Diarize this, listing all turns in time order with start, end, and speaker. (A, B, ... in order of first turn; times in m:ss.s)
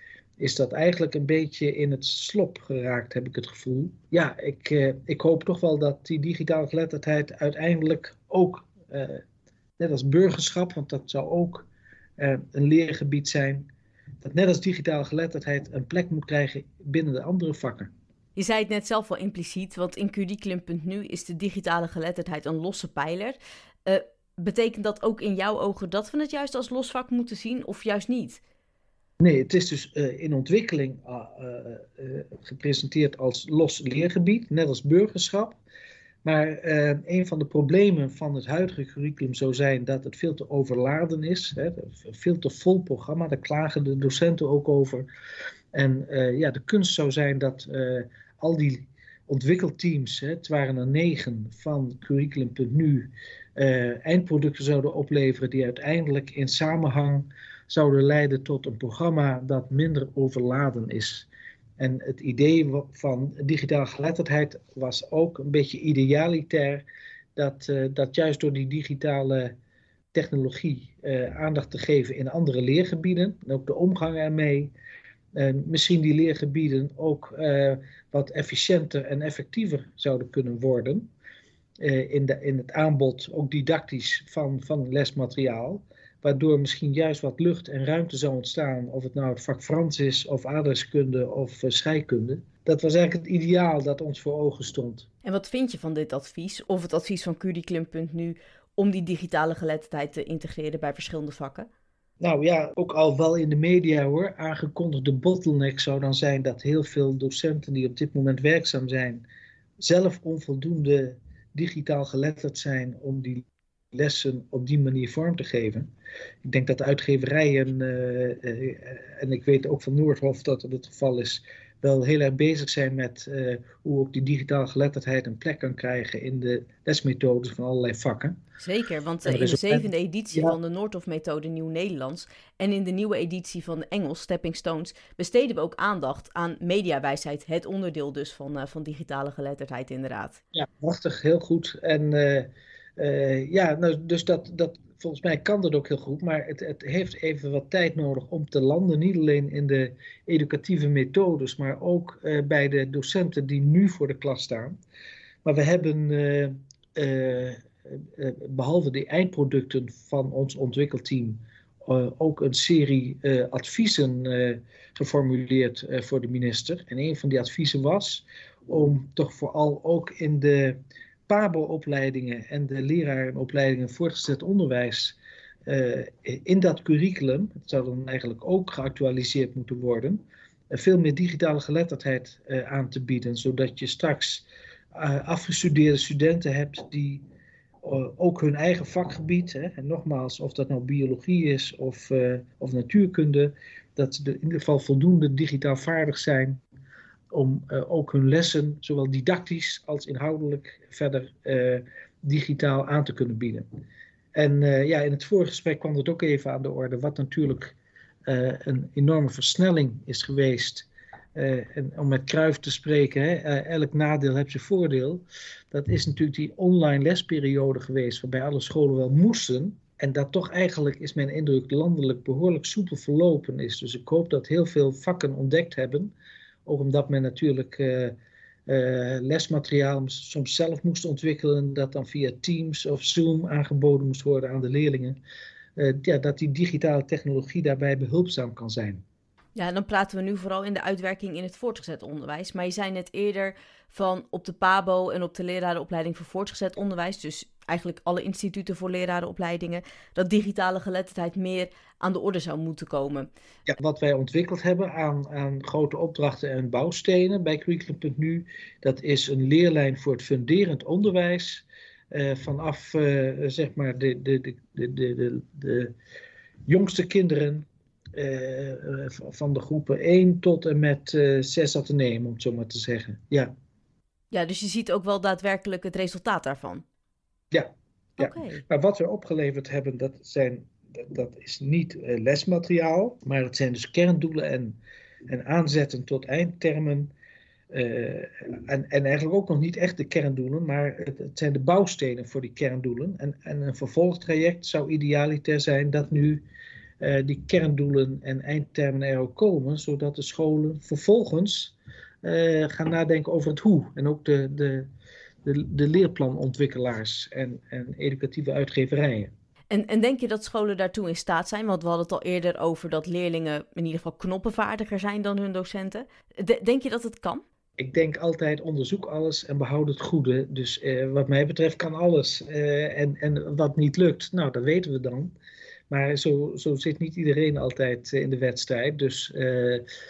0:00.4-0:09.2 A
0:09.8-0:11.7 A
0:12.2-0:13.7 A
0:14.2-0:17.9 A
0:18.4-0:28.4 B
0:29.2-0:35.6 A
0:36.2-0:45.1 A
0:45.7-1:01.3 A
1:01.8-1:06.8 A
1:07.4-1:09.5 A
1:10.1-1:14.7 A
1:15.3-1:21.1 A
1:21.8-1:35.1 A
1:35.2-1:41.7 B
1:42.2-1:49.2 A
1:49.8-1:55.9 A
1:56.4-2:08.4 A
2:08.6-2:20.4 B
2:09.2-2:10.6 A
2:20.5-2:34.8 A
2:35.4-2:50.8 A
2:51.3-3:07.2 A
3:07.8-3:16.6 A
3:17.3-3:23.6 A
3:24.3-3:27.7 A
3:28.3-3:46.1 A
3:46.6-3:48.1 A
3:48.7-3:55.2 A
3:55.8-3:59.0 A
3:59.5-4:13.3 B
4:13.7-4:25.9 A
4:26.7-4:33.5 A
4:34.3-4:36.8 B
4:37.5-4:47.1 A
4:38.2-4:38.6 B
4:47.7-4:56.4 A
4:57.0-5:04.9 A
5:05.4-5:09.3 A
5:09.7-5:17.4 B
5:17.8-5:25.3 A
5:25.9-5:29.8 A